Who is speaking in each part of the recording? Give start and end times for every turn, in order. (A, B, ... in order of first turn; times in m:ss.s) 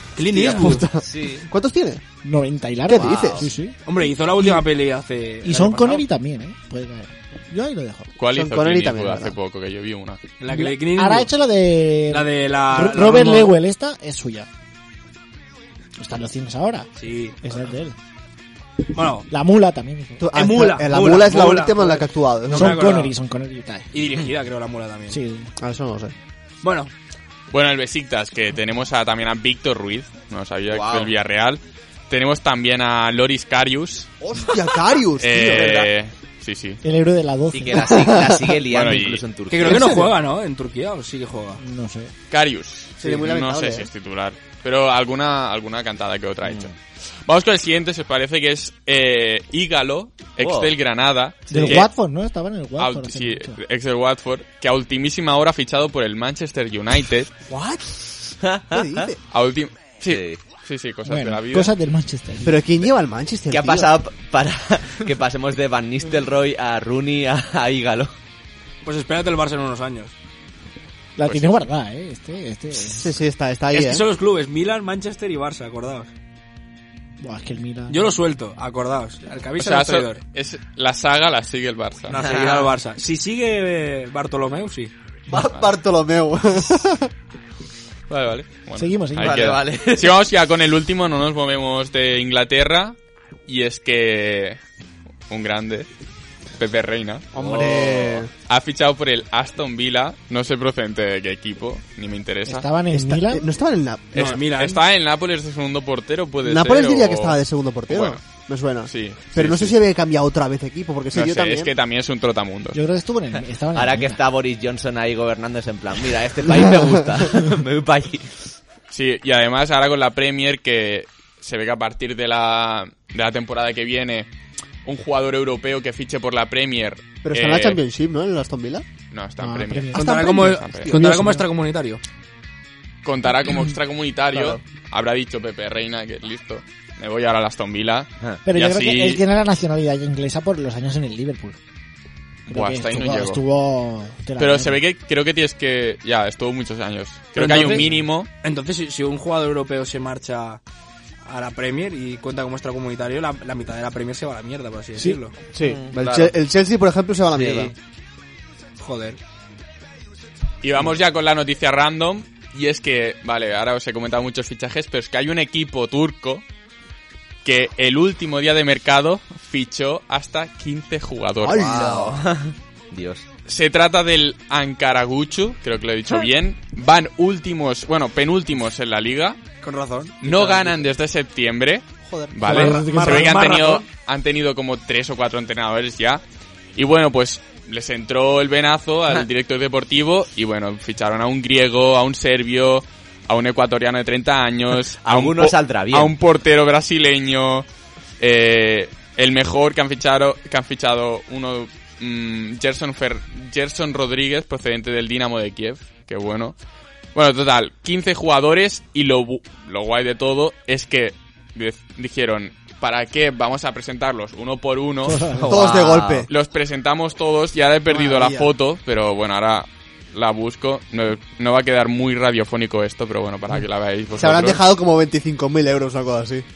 0:00.2-0:00.8 A
0:00.3-0:02.0 B
0:01.0-0:01.4 C
0:02.2-0:03.8 D
0:02.8-0:03.5 B
0:03.0-0:03.4 C
0:03.8-0:06.0 A
0:04.4-0:04.6 D
0:05.4-0:08.1 D
0:08.2-0:10.2 E
0:08.3-0:09.3 B
0:10.4-0:11.3 A
0:10.5-0:14.5 D
0:12.1-0:13.6 A
0:16.0-0:16.9 D
0:17.0-0:17.4 A
0:17.4-0:17.9 D
0:18.9-0:19.3 A
0:19.3-0:20.2 D
0:20.2-0:22.8 B
0:20.3-0:23.1 A
0:22.5-0:23.8 D
0:23.9-0:25.2 A
0:25.1-0:25.5 D
0:25.6-0:26.1 B
0:26.6-0:26.9 A
0:27.5-0:34.1 E
0:30.7-0:31.1 C
0:34.2-0:35.9 B
0:35.2-0:36.8 E
0:35.5-0:35.9 C
0:36.8-0:37.9 D
0:37.5-0:40.0 C
0:37.7-0:38.5 B
0:38.6-0:39.2 E
0:39.5-0:41.6 A
0:39.6-0:40.1 B
0:41.6-0:42.1 D
0:42.3-0:46.7 E
0:43.0-0:43.9 B
0:46.4-0:46.7 C
0:47.2-0:51.9 E
0:50.4-0:50.7 C
0:51.5-0:53.6 D
0:52.8-0:57.3 E
0:57.5-0:58.0 B
0:58.4-0:59.1 C
0:58.7-0:59.2 B
0:59.3-1:01.7 E
1:00.0-1:00.4 C
1:01.0-1:02.6 D
1:02.4-1:03.9 B
1:03.5-1:08.1 C
1:08.8-1:10.1 A
1:11.2-1:13.0 D
1:11.2-1:11.5 E
1:12.8-1:14.0 B
1:13.7-1:16.1 A
1:17.2-1:18.1 D
1:17.9-1:20.2 A
1:19.6-1:22.2 E
1:22.1-1:24.9 A
1:22.2-1:22.7 C
1:25.3-1:27.1 B
1:28.1-1:33.0 E
1:28.8-1:29.5 D
1:29.2-1:30.2 C
1:33.5-1:34.6 E
1:35.3-1:35.9 E
1:36.6-1:37.6 E
1:37.3-1:38.2 C
1:37.4-1:38.3 B
1:38.5-1:42.7 E
1:42.4-1:43.4 D
1:42.9-1:44.4 B
1:44.1-1:44.8 A
1:44.1-1:48.2 E
1:46.4-1:51.7 B
1:48.8-1:49.8 E
1:51.1-1:52.8 E
1:52.7-1:54.2 D
1:53.7-1:58.4 C
1:58.9-2:04.3 E
2:04.8-2:07.8 E
2:07.2-2:08.8 B
2:09.1-2:10.9 E
2:09.4-2:11.4 D
2:09.9-2:12.0 A
2:10.0-2:11.1 B
2:13.0-2:19.2 E
2:14.3-2:14.6 B
2:18.4-2:21.6 D
2:22.5-2:24.8 D
2:22.5-2:23.4 E
2:24.4-2:28.3 E
2:27.3-2:27.9 A
2:28.4-2:30.6 A
2:31.2-2:35.3 A
2:35.5-2:37.7 B
2:35.6-2:36.3 C
2:38.8-2:39.2 A
2:40.6-2:46.4 E
2:47.4-2:51.9 E
2:51.4-2:52.2 B
2:51.4-2:53.2 C
2:53.4-2:59.4 E
2:59.6-3:00.6 A
3:00.2-3:06.2 E
3:02.0-3:02.6 B
3:02.4-3:03.4 D
3:02.4-3:03.8 A
3:06.8-3:17.6 E
3:15.0-3:16.1 C
3:18.2-3:26.5 E
3:27.1-3:35.3 E
3:35.0-3:35.5 D
3:35.4-3:36.3 C
3:35.5-3:36.3 B
3:36.3-3:44.6 E
3:37.9-3:38.5 B
3:44.2-3:46.4 B